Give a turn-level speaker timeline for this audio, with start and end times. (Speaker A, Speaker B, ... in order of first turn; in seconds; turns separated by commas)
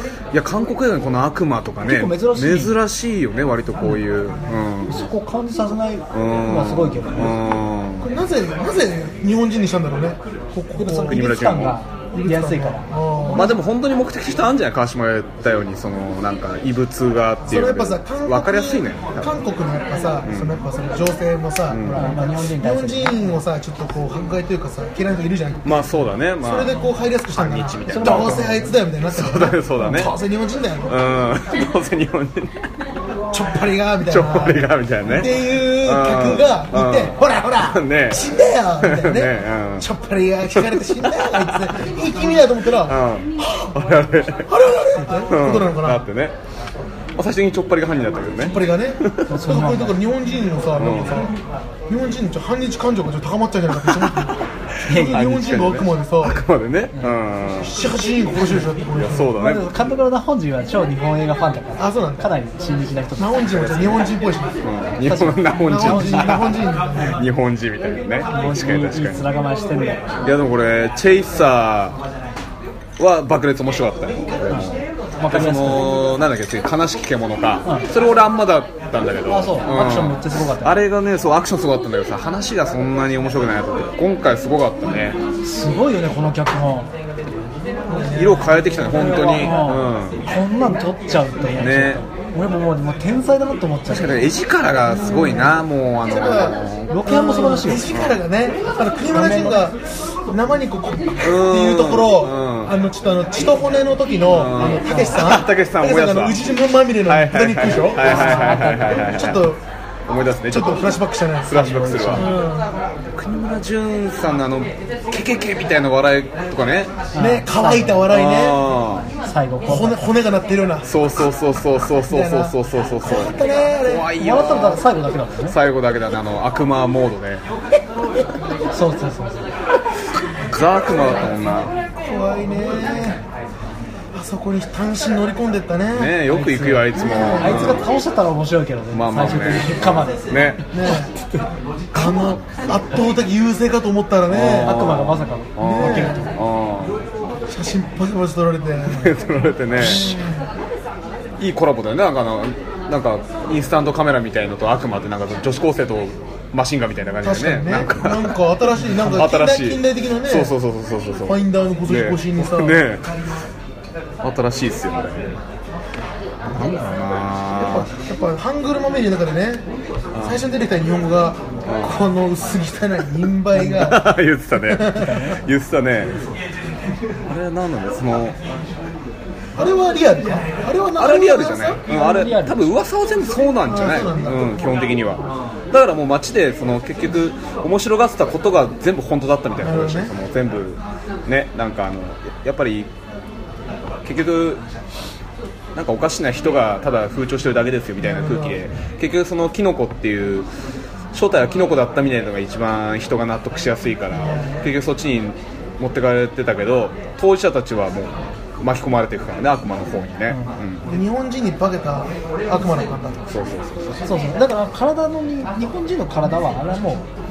Speaker A: 0.3-5.1, Speaker B: 1.9-2.8, Speaker B: 4.9-7.4, Speaker A: 6.1-8.1, Speaker C: 8.0-11.4, Speaker B: 10.8-13.4, Speaker A: 11.1-11.8, Speaker C: 12.1-13.6, Speaker A: 13.3-19.4, Speaker C: 17.5-31.0, Speaker A: 20.2-20.6, Speaker A: 21.7-22.2, Speaker B: 21.9-23.3, Speaker A: 25.6-26.8, Speaker A: 27.3-28.5, Speaker B: 27.9-28.7, Speaker A: 29.1-30.1, Speaker A: 30.9-32.6, Speaker C: 33.3-43.0, Speaker A: 34.1-38.3, Speaker A: 38.8-39.9, Speaker A: 40.5-41.7, Speaker A: 42.9-44.5, Speaker C: 44.5-46.0, Speaker A: 45.3-46.4, Speaker A: 47.2-49.3, Speaker C: 48.4-51.3, Speaker B: 49.3-50.0, Speaker A: 50.8-51.2, Speaker C: 51.9-56.4, Speaker A: 53.9-54.2, Speaker A: 54.8-57.8, Speaker B: 54.9-55.2, Speaker C: 57.6-59.4, Speaker A: 58.9-59.7, Speaker B: 59.4-63.6, Speaker C: 61.8-62.3, Speaker C: 63.2-64.6, Speaker A: 63.5-64.1, Speaker A: 64.6-69.3, Speaker B: 65.1-66.4, Speaker C: 65.6-67.2, Speaker B: 68.3-70.2, Speaker A: 70.2-72.0, Speaker A: 73.0-85.2, Speaker B: 74.5-76.0, Speaker B: 79.3-80.8, Speaker B: 85.4-86.9, Speaker C: 87.9-88.7, Speaker A: 88.1-90.2, Speaker B: 88.9-94.3, Speaker A: 91.6-92.0, Speaker A: 93.9-97.0, Speaker C: 94.9-109.6, Speaker B: 96.9-97.9, Speaker A: 97.9-98.2, Speaker B: 99.1-99.6, Speaker A: 101.2-102.8, Speaker A: 104.3-106.4, Speaker B: 104.9-105.2, Speaker A: 107.0-109.5, Speaker B: 108.0-109.1, Speaker A: 110.1-112.3, Speaker C: 110.5-112.7, Speaker B: 111.5-112.3, Speaker A: 113.1-116.9, Speaker B: 117.1-118.1, Speaker C: 117.2-118.6, Speaker A: 118.1-119.1, Speaker B: 119.2-120.1, Speaker C: 119.6-120.9, Speaker A: 120.9-124.8, Speaker C: 122.1-124.1, Speaker B: 124.1-125.6, Speaker A: 125.4-127.4, Speaker B: 128.7-129.5, Speaker A: 130.5-131.7, Speaker C: 132.0-133.2, Speaker C: 134.1-136.2, Speaker A: 135.9-137.9, Speaker B: 136.3-140.3, Speaker C: 136.9-137.8, Speaker A: 138.9-140.6, Speaker C: 140.7-141.2, Speaker C: 141.9-144.8, Speaker A: 141.9-142.4, Speaker A: 144.3-147.1, Speaker B: 144.6-146.3, Speaker C: 145.6-146.2, Speaker C: 147.5-149.2, Speaker A: 148.9-150.2, Speaker C: 149.7-150.5, Speaker A: 151.4-158.4, Speaker C: 157.2-160.6, Speaker A: 158.9-163.1, Speaker C: 161.2-162.8, Speaker A: 164.2-165.4, Speaker A: 166.5-167.9, Speaker C: 167.6-169.6, Speaker A: 170.1-170.4, Speaker C: 170.2-175.2, Speaker A: 171.7-172.0, Speaker B: 173.6-173.8, Speaker A: 173.7-176.2, Speaker B: 174.9-175.4, Speaker A: 177.3-178.4, Speaker C: 179.6-181.8, Speaker A: 181.0-192.9, Speaker B: 181.9-182.7, Speaker C: 183.7-184.5, Speaker C: 189.6-190.1, Speaker A: 194.0-194.6, Speaker A: 195.8-200.5, Speaker C: 198.0-198.6, Speaker A: 201.1-210.9, Speaker C: 204.1-204.6, Speaker C: 210.9-213.2, Speaker A: 213.3-214.1, Speaker B: 214.0-217.1